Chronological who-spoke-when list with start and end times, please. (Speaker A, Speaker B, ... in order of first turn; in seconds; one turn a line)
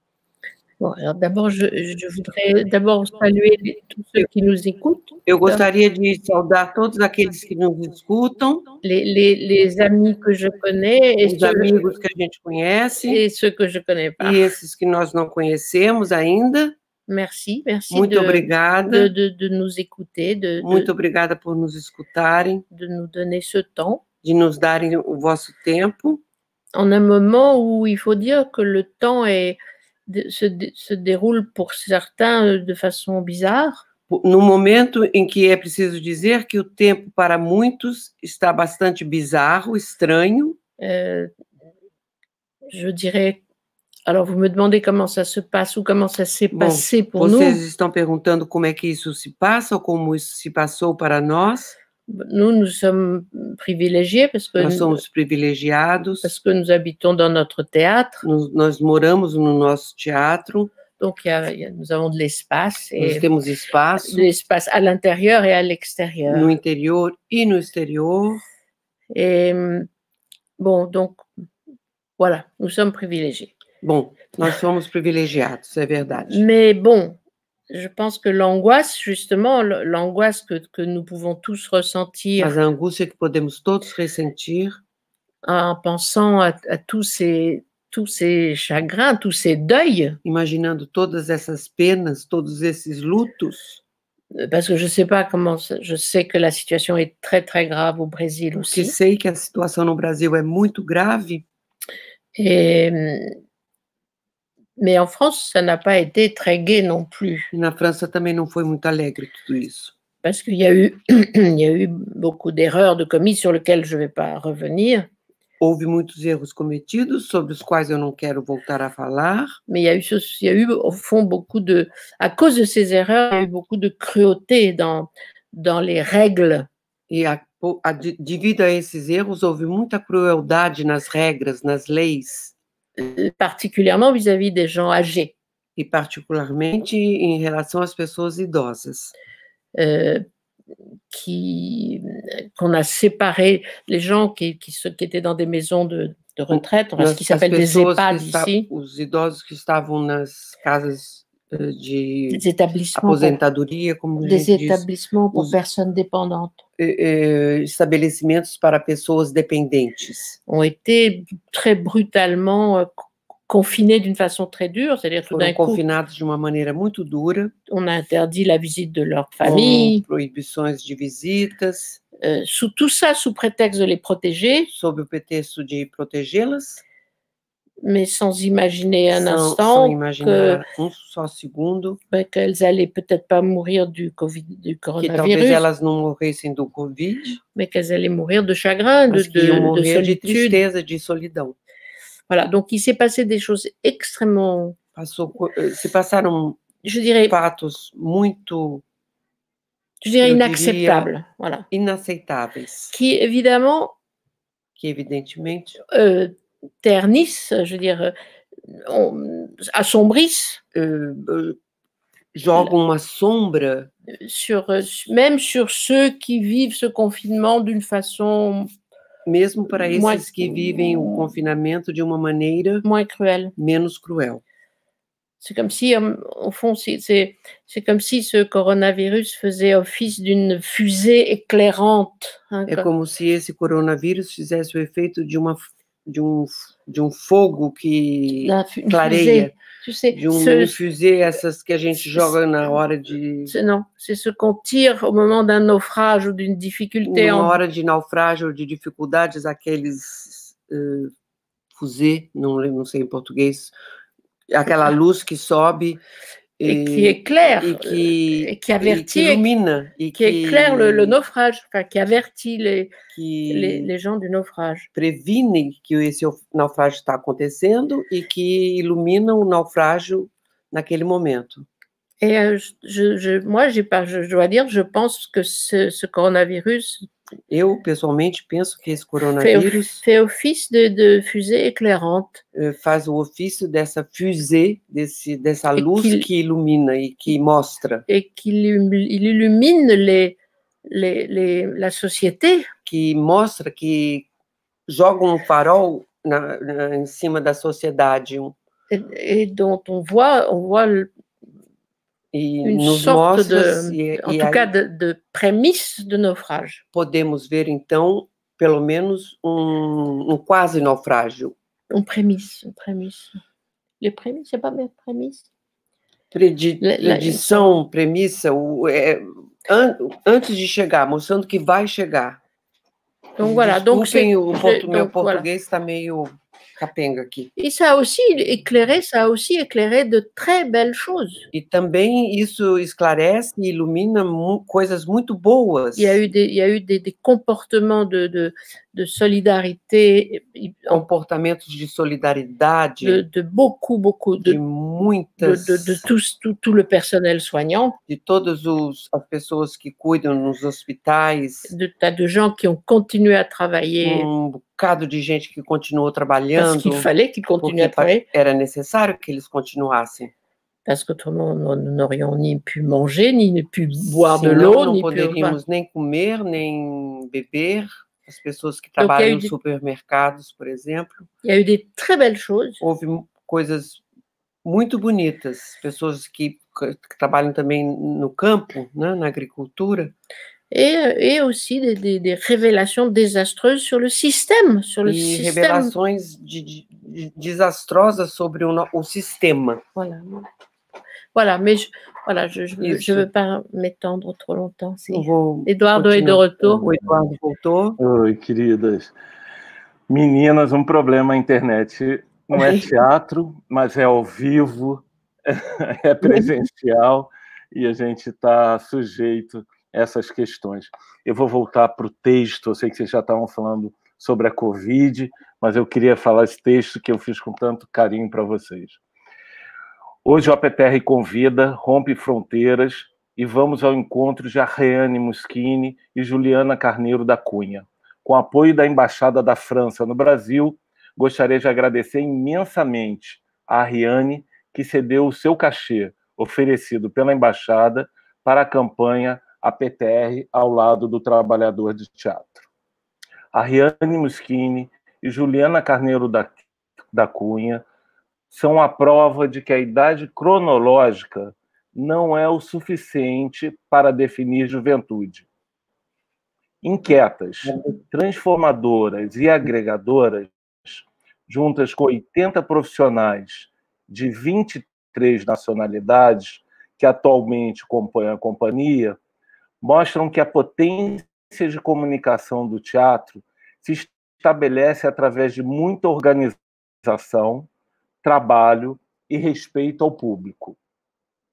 Speaker A: 0.8-5.7
Speaker B: 5.2-8.8
Speaker A: 8.8-11.8
Speaker B: 11.2-13.2
Speaker A: 13.1-14.4
Speaker B: 14.2-16.7
Speaker A: 17.1-20.9
Speaker B: 17.9-19.1
Speaker B: 20.6-22.6
Speaker A: 22.7-24.0
Speaker B: 24.2-26.2
Speaker A: 26.7-33.8
Speaker B: 34.1-40.6
Speaker A: 40.8-41.3
Speaker A: 42.7-43.4
Speaker A: 44.0-47.6
Speaker B: 46.5-51.8
Speaker A: 52.1-55.0
Speaker B: 54.6-56.3
Speaker A: 56.2-58.2
Speaker B: 58.2-60.7
Speaker A: 61.0-63.2
Speaker B: 63.0-64.3
Speaker A: 64.0-66.5
Speaker B: 66.2-68.4
Speaker A: 69.1-69.9
Speaker A: 70.6-71.2
Speaker A: 72.2-73.5
Speaker B: 73.8-76.4
Speaker A: 76.3-77.2
Speaker A: 77.7-82.5
Speaker B: 82.4-84.8
Speaker A: 85.4-90.2
Speaker B: 90.2-93.8
Speaker A: 94.3-98.9
Speaker B: 98.5-101.4
Speaker A: 102.3-103.3
Speaker A: 104.8-107.5
Speaker B: 107.5-109.9
Speaker A: 110.2-115.1
Speaker B: 115.6-119.6
Speaker A: 119.7-126.7
Speaker B: 127.1-132.5
Speaker A: 133.0-135.3
Speaker B: 135.8-139.1
Speaker A: 139.7-140.2
Speaker A: 141.1-148.7
Speaker B: 146.5-155.6
Speaker A: 152.3-153.4
Speaker A: 154.2-156.6
Speaker B: 156.8-160.4
Speaker A: 160.5-162.9
Speaker A: 163.5-165.8
Speaker B: 165.3-167.5
Speaker A: 167.7-170.0
Speaker B: 169.4-172.0
Speaker A: 172.2-174.7
Speaker B: 174.7-176.8
Speaker A: 177.8-180.6
Speaker B: 179.1-182.0
Speaker A: 182.1-185.6
Speaker B: 185.0-187.4
Speaker A: 187.5-190.6
Speaker B: 189.1-191.6
Speaker A: 192.3-194.8
Speaker B: 194.9-196.7
Speaker A: 196.8-197.3
Speaker B: 197.3-198.8
Speaker A: 200.0-201.6
Speaker B: 200.2-201.1
Speaker B: 201.7-202.9
Speaker A: 202.9-203.9
Speaker B: 204.8-205.8
Speaker A: 205.9-208.1
Speaker A: 208.7-210.6
Speaker B: 210.7-211.6
Speaker B: 212.3-213.9
Speaker A: 214.2-218.7
Speaker B: 219.2-222.8
Speaker A: 219.9-220.2
Speaker A: 222.8-223.5
Speaker B: 223.6-224.4
Speaker A: 225.4-232.8
Speaker B: 232.7-239.6
Speaker A: 238.4-240.7
Speaker B: 240.1-243.6
Speaker A: 242.0-242.3
Speaker A: 243.5-247.6
Speaker B: 247.0-251.1
Speaker B: 251.7-253.7
Speaker B: 254.5-256.0
Speaker B: 256.6-261.2
Speaker A: 256.6-259.5
Speaker A: 260.1-262.9
Speaker B: 263.1-263.9
Speaker A: 263.5-264.9
Speaker B: 264.9-271.7
Speaker A: 272.2-277.1
Speaker B: 277.5-280.0
Speaker A: 279.4-282.4
Speaker B: 282.5-288.0
Speaker A: 285.8-286.2
Speaker A: 288.1-290.4
Speaker A: 290.9-292.7
Speaker B: 292.8-294.3
Speaker B: 294.9-298.6
Speaker A: 298.9-301.1
Speaker B: 302.3-304.7
Speaker A: 302.6-306.8
Speaker B: 306.9-311.5
Speaker A: 311.9-313.4
Speaker A: 314.0-315.4
Speaker B: 316.3-322.4
Speaker A: 316.8-317.7
Speaker A: 323.4-325.4
Speaker B: 323.4-327.5
Speaker A: 327.6-331.4
Speaker B: 331.5-336.2
Speaker A: 335.9-341.0
Speaker B: 340.9-343.2
Speaker A: 343.0-344.6
Speaker B: 344.4-346.0
Speaker A: 345.4-348.0
Speaker B: 348.1-351.7
Speaker A: 351.7-354.3
Speaker B: 354.0-360.3
Speaker A: 356.6-358.2
Speaker A: 360.9-365.6
Speaker B: 364.0-371.3
Speaker A: 369.0-369.5
Speaker A: 371.4-372.8
Speaker B: 372.8-374.0
Speaker B: 374.6-380.1
Speaker A: 380.7-385.9
Speaker B: 385.0-389.8
Speaker A: 389.9-390.4
Speaker A: 391.3-396.9
Speaker B: 392.8-393.3
Speaker B: 395.1-398.0
Speaker C: 398.0-399.1
Speaker C: 400.1-419.0
Speaker B: 402.5-402.9
Speaker B: 406.2-406.5
Speaker C: 420.2-442.6
Speaker C: 443.5-446.6
Speaker C: 447.1-447.8
Speaker C: 448.5-455.4
Speaker C: 456.8-469.2
Speaker B: 457.6-457.9
Speaker C: 469.8-477.7
Speaker C: 478.2-480.8